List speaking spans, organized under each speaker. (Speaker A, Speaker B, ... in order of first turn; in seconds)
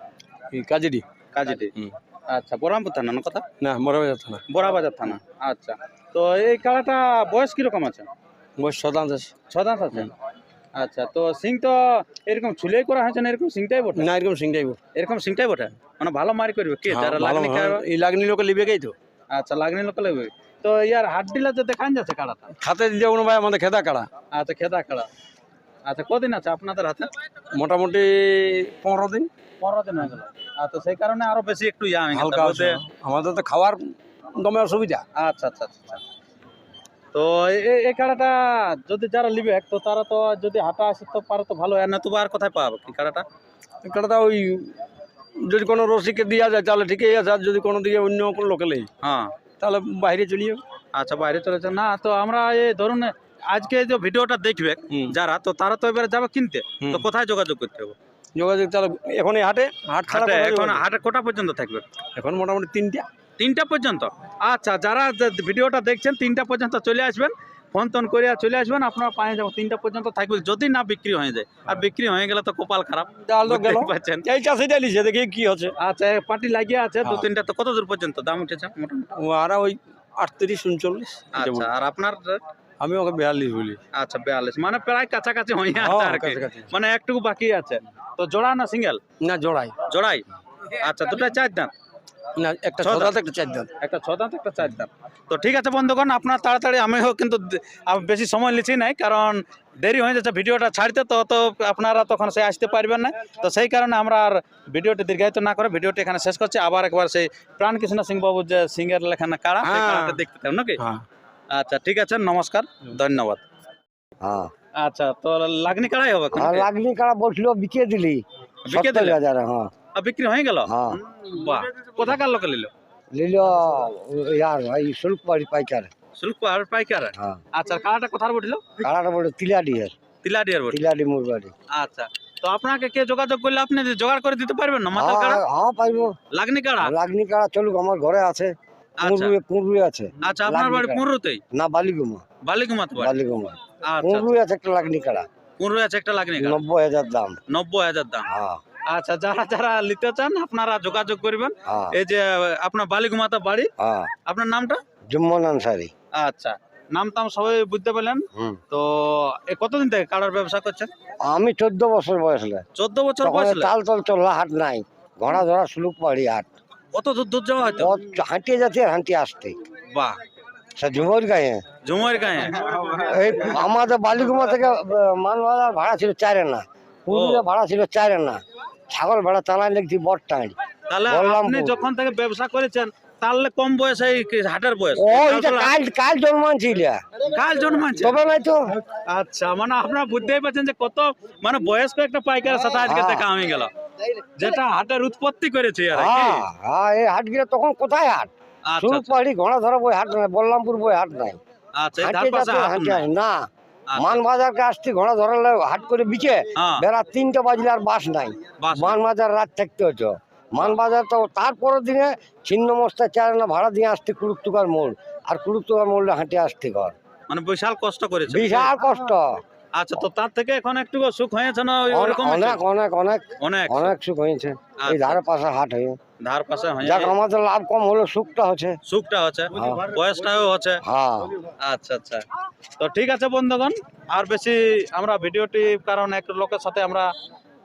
Speaker A: 0.5-1.1, 3.6-4.4, 8.6-9.3, 13.9-14.8, 16.9-18.9, 22.6-24.1, 27.5-29.3, 32.1-35.0, 43.8-44.8, 45.4-48.9, 49.6-50.6, 54.9-55.2, 56.8-57.1, 58.4-60.8, 62.1-63.1, 73.2-75.7, 79.2-81.7, 82.8-83.8, 85.8-86.7, 89.2-89.8, 92.4-93.7, 109.6-110.2, 110.8-111.0
Speaker B: 1.3-1.7, 2.3-3.5, 4.5-8.1, 9.5-10.1, 10.8-14.1, 14.9-17.8, 19.3-22.5, 24.3-25.1, 25.9-27.1, 29.6-32.8, 35.1-36.0, 37.1-43.2, 49.0-49.3, 50.9-58.0, 60.1-61.9, 63.4-74.3, 75.8-79.1, 81.3-82.4, 83.9-89.0, 89.9-91.7, 92.8-93.2, 93.8-110.8, 111.5-113.4, 114.8-116.7, 118.7-119.2, 119.9-122.7, 126.2-128.7, 130.2-130.9, 131.7-135.4, 136.3-136.9, 139.0-139.4, 140.2-141.4, 142.4-143.2, 143.8-144.3, 145.6-146.6, 147.5-148.3, 148.9-153.7, 154.3-154.8, 156.2-160.9, 162.8-163.7, 166.9-167.9, 169.9-170.2, 171.8-172.9, 177.1-177.4, 180.9-185.7, 187.3-188.2, 189.1-193.7, 194.3-196.4, 198.7-199.1, 201.8-203.0, 203.9-204.2, 206.6-206.8, 208.6-209.0, 217.3-218.7, 219.7-222.6, 223.4-223.9, 224.8-225.2, 226.2-227.1, 228.9-230.8, 231.6-232.2, 232.8-237.1
Speaker C: 114.2-114.5, 116.3-119.7, 120.7-121.0, 123.1-125.9, 127.2-127.4, 128.8-129.9, 130.7-131.5, 134.9-136.2, 136.8-142.2, 143.0-145.3, 146.4-147.4, 148.3-148.6, 151.7-151.9, 153.8-154.1, 155.1-155.9, 158.3-158.6, 161.2-162.6, 163.2-166.5, 167.8-169.6, 170.8-171.6, 173.0-180.6, 181.1-181.8, 184.9-187.0, 187.9-188.8, 192.7-193.3, 195.9-201.4, 202.0-216.9, 218.3-219.4, 221.9-226.0, 226.8-228.8, 229.6-229.8, 230.8-231.3